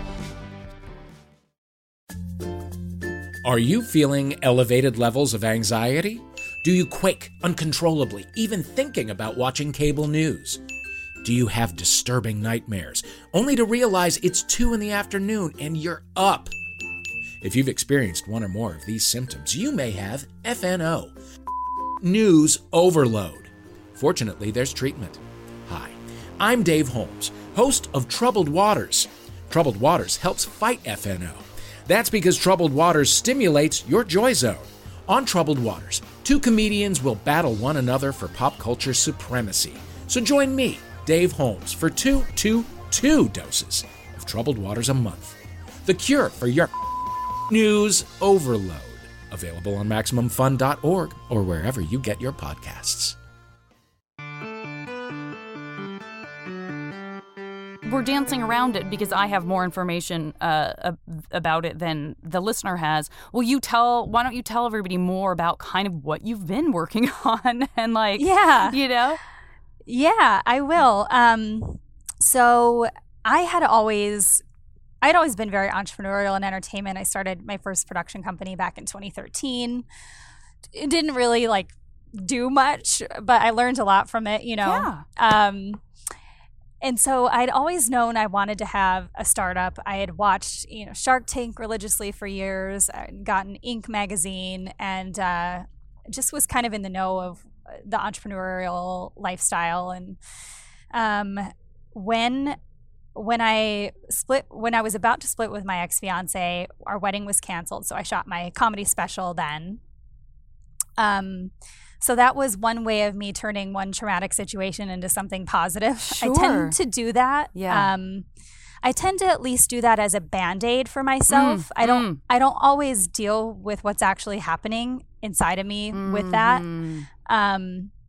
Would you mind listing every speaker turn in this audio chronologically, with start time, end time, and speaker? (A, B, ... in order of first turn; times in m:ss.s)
0:03.4-0:10.6 A
0:11.2-0:16.5 A
0:17.4-0:21.1 A
0:22.0-0:46.7 A
0:47.5-0:53.2 A
0:57.9-1:09.2 B
1:08.2-1:08.8 C
1:09.9-1:14.4 C
1:15.0-1:19.9 C
1:20.7-1:25.8 C
1:24.6-1:25.0 B
1:26.8-1:40.2 C
1:40.9-1:42.6 C
1:43.2-1:49.8 C
1:51.0-1:58.3 C
1:56.0-1:56.8 B
1:57.5-1:57.9 B
1:58.8-2:06.7 C
2:01.3-2:02.2 B
2:05.9-2:07.1 B
2:07.3-2:07.9 C